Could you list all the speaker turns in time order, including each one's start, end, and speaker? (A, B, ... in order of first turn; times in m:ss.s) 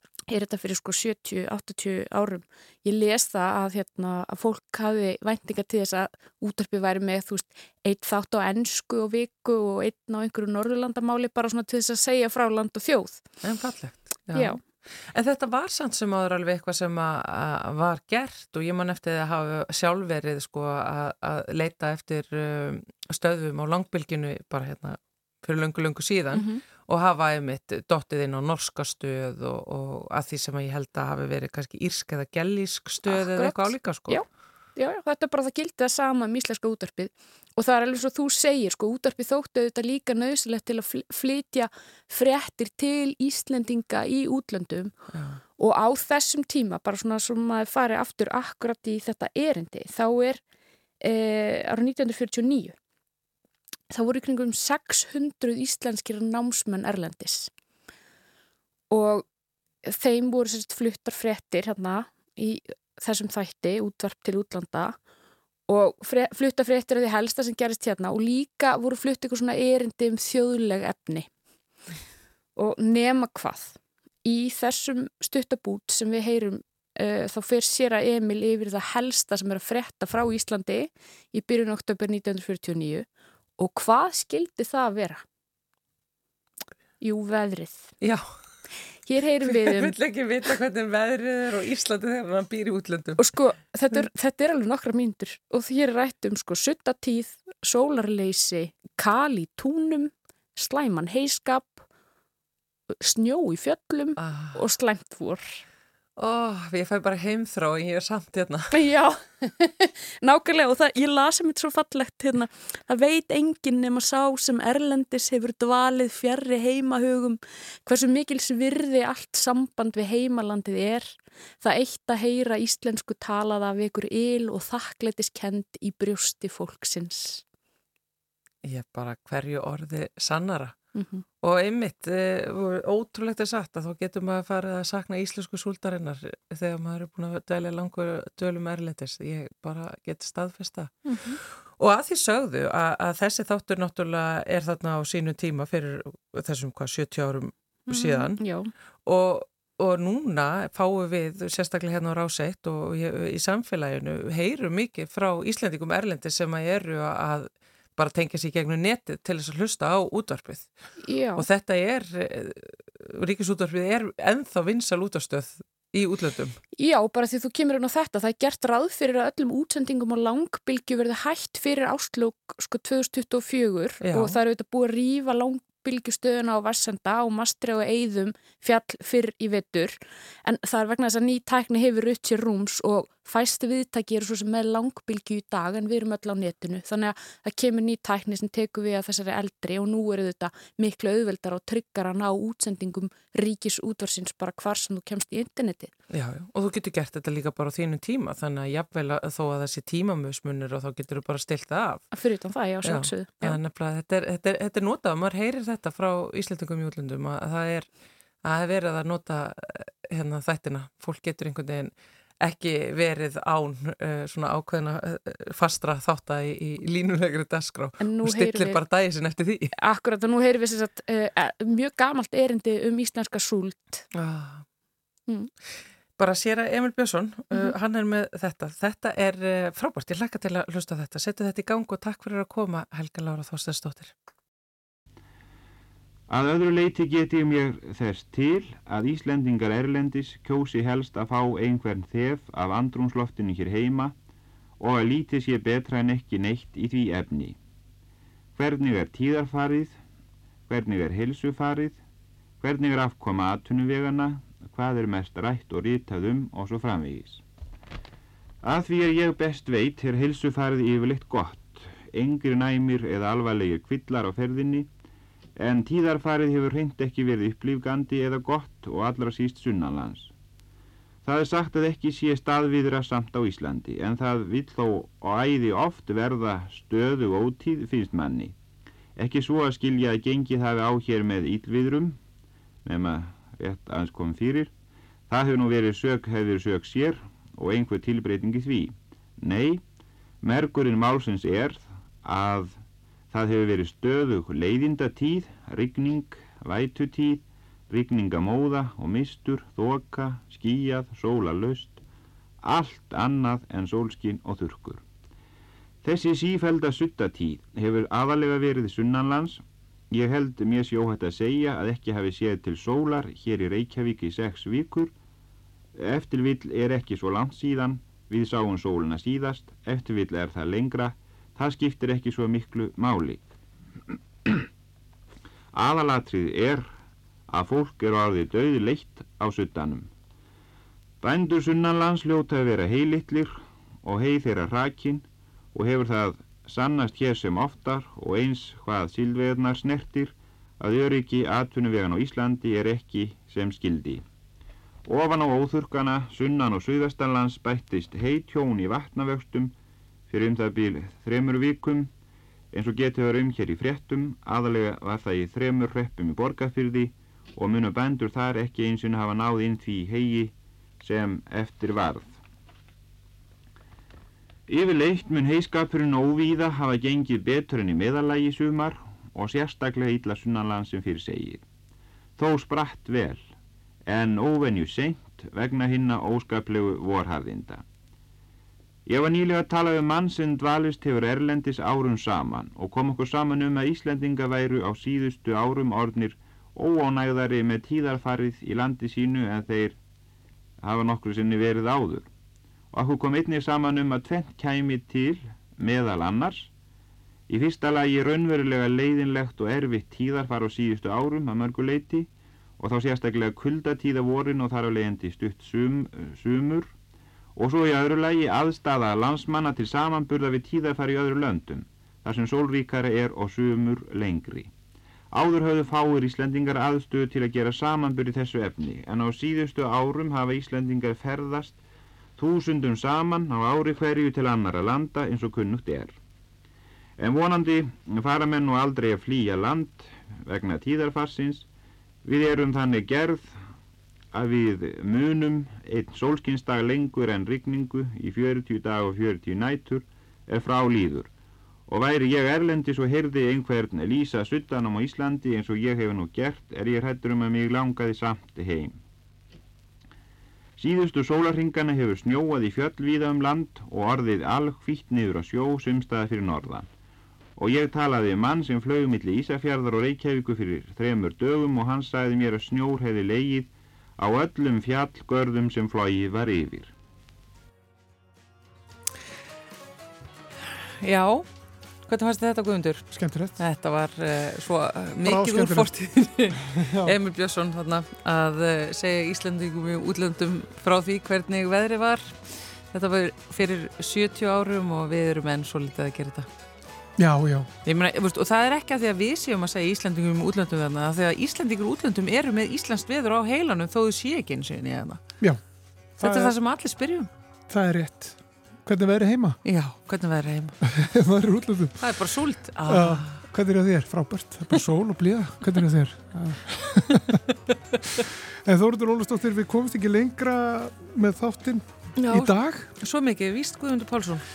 0:00.3-0:13.2 A
0:13.4-0:34.2 B
0:14.3-0:14.6 A
0:26.3-0:26.6 A
0:33.1-0:34.2 A
0:34.8-0:44.9 A
0:45.1-0:45.4 B
0:45.6-0:50.4 A
0:51.0-0:52.7 A
0:53.9-0:57.5 A
0:58.9-0:59.2 A
0:59.9-1:05.0 A
1:05.7-1:11.3 A
1:12.6-1:23.1 A
1:23.6-1:25.2 A
1:27.0-1:28.0 A
1:28.0-1:28.3 B
1:29.1-1:30.0 A
1:29.4-1:33.4 B
1:33.2-1:41.8 A
1:43.0-1:45.6 A
1:44.2-1:44.6 B
1:46.2-1:48.8 B
1:48.7-1:49.2 A
1:50.2-2:07.4 A
2:08.6-2:10.8 B
2:11.0-2:11.2 A
2:11.4-2:28.4 B
2:21.0-2:21.4 A
2:27.9-2:28.7 A
2:29.1-2:40.7 B
2:41.0-2:41.5 A
2:41.4-2:46.6 B
2:46.8-3:15.9 A
2:54.0-2:54.4 B
3:16.1-3:22.1 B
3:22.1-3:23.6 A
3:22.8-3:27.9 B
3:28.4-3:39.7 B
3:38.0-3:38.8 A
3:39.7-3:44.0 A
3:44.2-3:44.6 B
3:46.2-3:54.1 B
3:56.3-4:04.2 C
4:04.8-4:07.6 C
4:08.6-4:10.0 C
4:10.7-4:12.0 C
4:12.6-4:17.4 C
4:18.6-4:24.9 C
4:25.6-4:30.3 C
4:31.2-4:38.6 C
4:39.2-4:42.2 C
4:42.8-4:44.7 C
4:45.3-4:49.8 C
4:50.4-4:52.8 C
4:53.3-5:02.0 C
5:02.6-5:05.0 C
5:06.0-5:15.1 C
5:16.0-5:23.5 C
5:25.8-5:26.9 C
5:27.5-5:30.1 C
5:31.2-5:44.2 C
5:45.1-5:49.7 C
5:50.3-5:52.1 C
5:52.7-6:02.4 C
6:04.7-6:11.6 C
6:12.4-6:13.4 C
6:14.1-6:17.8 C
6:19.1-6:30.0 C
6:30.8-6:32.3 C
6:32.9-6:36.7 C
6:37.5-6:46.9 C
6:47.6-6:54.7 C
6:55.3-7:01.8 C
7:02.4-7:06.2 C
7:07.2-7:11.7 C
7:12.2-7:13.5 C
7:14.3-7:21.3 C
7:21.9-7:29.0 C
7:30.8-7:36.9 C
7:37.6-7:46.9 C
7:51.0-7:51.5 B
7:52.1-8:06.5 B
7:53.1-7:53.6 D
7:55.2-7:55.9 D
7:56.5-7:57.2 D
8:07.2-8:07.7 D
8:07.8-8:15.2 B
8:16.2-8:16.5 D
8:16.2-8:17.3 B
8:17.7-8:19.6 D
8:19.6-8:20.8 B
8:20.9-8:22.1 D
8:22.0-8:23.4 B
8:22.9-8:27.4 D
8:28.6-8:32.9 D
8:32.2-8:34.4 B